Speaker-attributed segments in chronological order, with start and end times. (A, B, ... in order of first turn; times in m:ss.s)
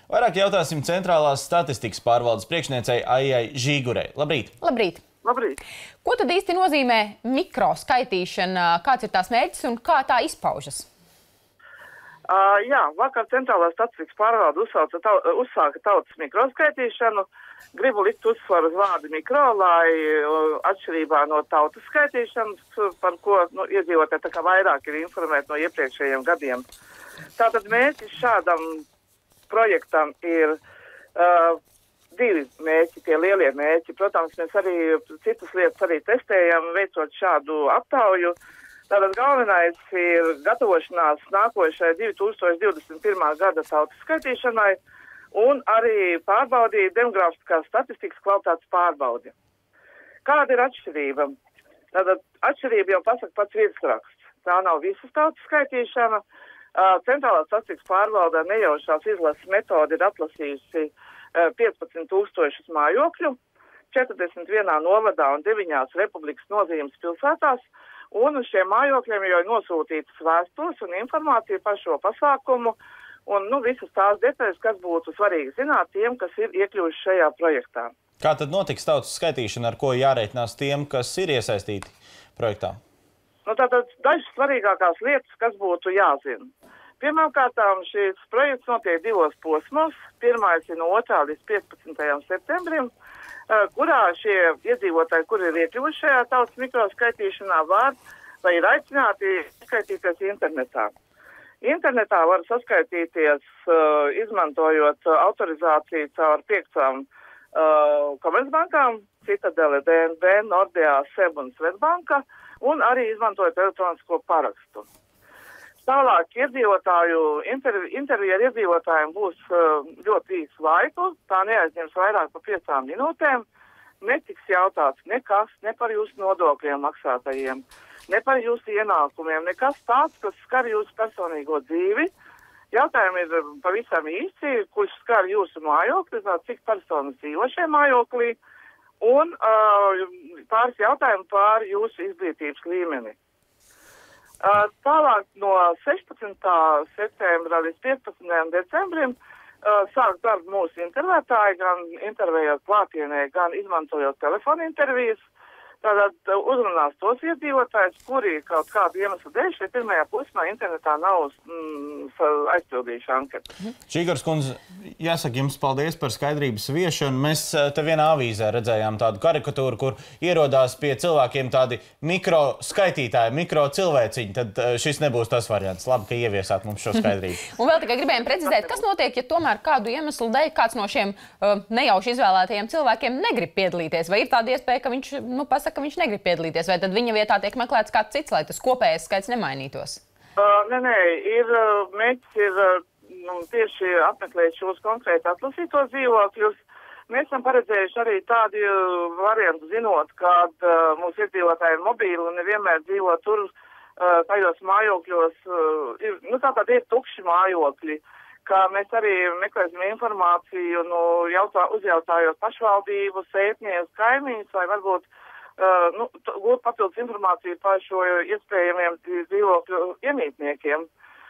0:00.1-0:04.5 A
0:04.6-0:05.0 B
0:05.2-0:05.6 C
0:06.0-0:10.8 B
0:12.3-0:26.6 C
0:27.4-0:28.8 C
0:29.5-0:30.6 C
0:31.1-0:31.6 C
0:32.1-0:38.3 C
0:38.9-0:44.8 C
0:45.3-0:49.3 C
0:50.2-0:51.3 C
0:51.9-0:56.2 C
0:56.7-1:03.4 C
1:03.9-1:17.9 C
1:18.2-1:22.8 A
1:23.4-1:32.9 C
1:33.5-1:40.9 C
1:41.6-1:54.9 C
1:55.8-2:03.4 C
2:04.0-2:12.1 C
2:12.7-2:18.4 C
2:19.0-2:23.2 C
2:24.4-2:35.2 C
2:35.8-2:43.4 C
2:43.9-2:57.5 A
2:57.5-3:10.0 B
3:10.4-3:40.9 C